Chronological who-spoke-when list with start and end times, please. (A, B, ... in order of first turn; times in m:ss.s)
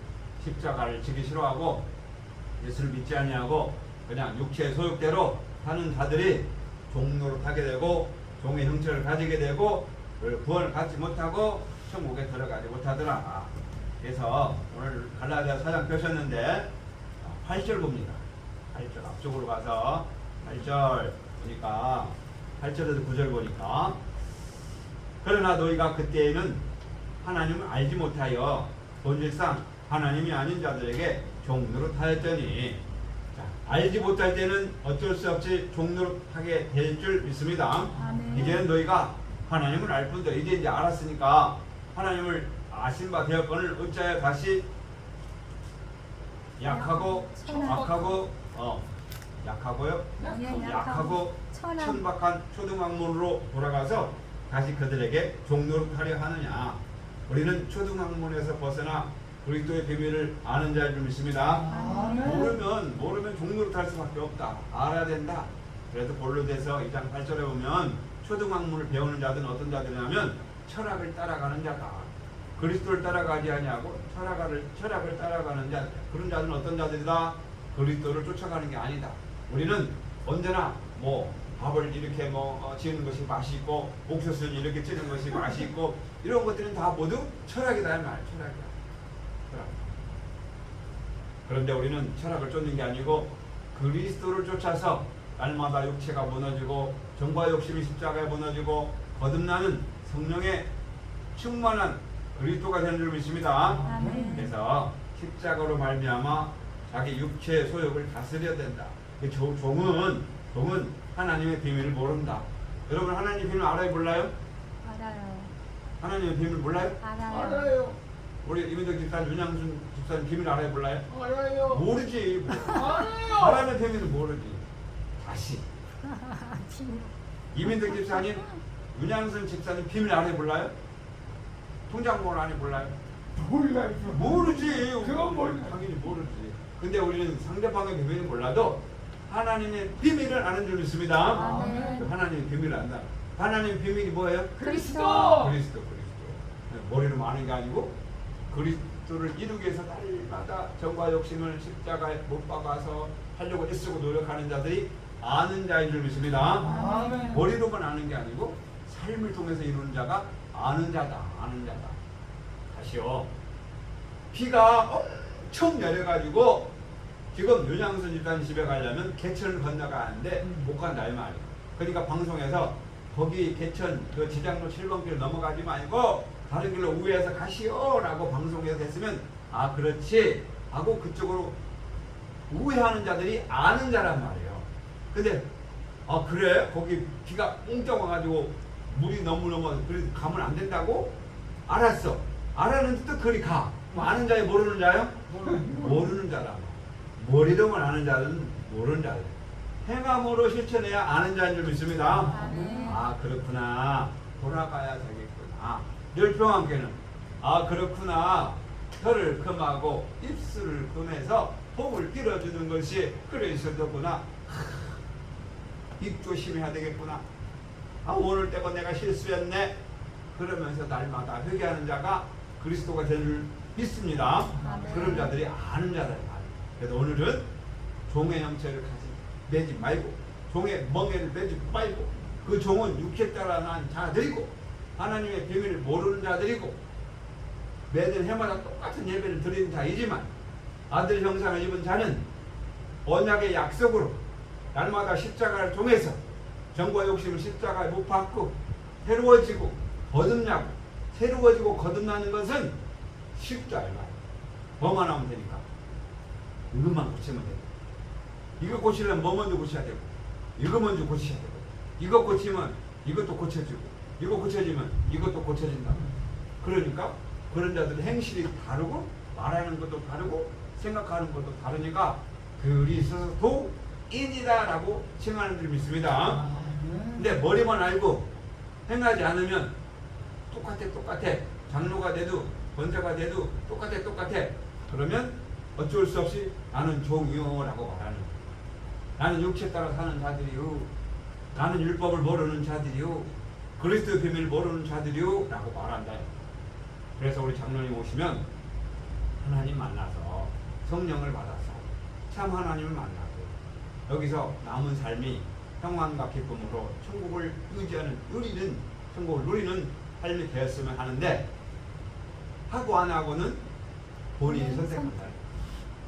0:00.4-0:01.8 A
0:02.6-0:24.0 A
0:25.2-0:26.6 A
0:27.2-0:32.8 A
0:33.3-0:44.6 A
0:37.9-0:38.6 B
0:37.9-0:38.6 C
0:46.6-0:48.9 A
0:46.6-0:48.2 C
0:47.4-0:48.1 B
0:49.4-1:01.6 A
0:50.2-0:50.8 B
0:50.2-0:52.0 C
1:01.5-1:02.5 B
1:01.7-1:02.6 C
1:02.2-1:28.7 A
1:29.5-1:29.9 A
1:31.4-1:40.7 A
1:41.3-1:54.3 A
1:43.7-1:44.5 B
1:43.8-1:44.5 C
1:54.8-1:55.5 C
1:56.0-1:57.0 A
1:57.0-1:57.8 C
1:57.2-1:58.0 B
1:58.4-2:01.1 A
2:01.1-2:01.9 B
2:01.7-2:04.6 A
2:02.6-2:03.7 B
2:05.2-2:05.6 A
2:06.1-2:08.4 C
2:07.5-2:10.7 A
2:11.9-2:12.9 A
2:13.4-2:15.8 B
2:14.1-2:24.6 A
2:21.3-2:22.1 C
2:21.3-2:22.1 B
2:24.6-2:25.6 B
2:24.6-2:25.5 C
2:25.2-2:27.9 A
2:28.5-2:36.7 A
2:36.6-2:37.4 C
2:36.6-2:37.4 B
2:37.3-2:42.0 A
2:42.7-2:43.3 A
2:44.3-2:46.7 A
2:47.3-3:01.6 A
3:02.5-3:05.4 A
3:06.0-3:11.1 A
3:11.7-3:35.0 A
3:15.3-3:16.1 B
3:22.2-3:23.0 B
3:22.3-3:23.0 C
3:36.0-3:37.2 A
3:38.0-3:39.8 A
3:40.3-3:47.4 A
3:44.6-3:45.3 C
3:44.6-3:45.2 B
3:48.1-3:56.8 A
3:57.9-4:00.3 A
4:00.9-4:02.2 A
4:03.0-4:04.2 A
4:04.7-4:06.2 A
4:06.7-4:12.7 A
4:13.3-4:14.2 A
4:14.8-4:15.6 A
4:16.7-4:17.7 A
4:18.6-4:26.1 A
4:26.6-4:36.5 A
4:36.3-4:37.2 B
4:37.1-4:38.3 A
4:38.9-4:39.7 A
4:40.5-4:48.3 A
4:49.2-4:50.9 A
4:51.5-4:56.2 A
4:57.2-4:58.4 A
4:59.4-5:03.5 A
5:04.1-5:11.5 A
5:12.7-5:13.6 A
5:14.3-5:15.4 A
5:14.4-5:15.2 C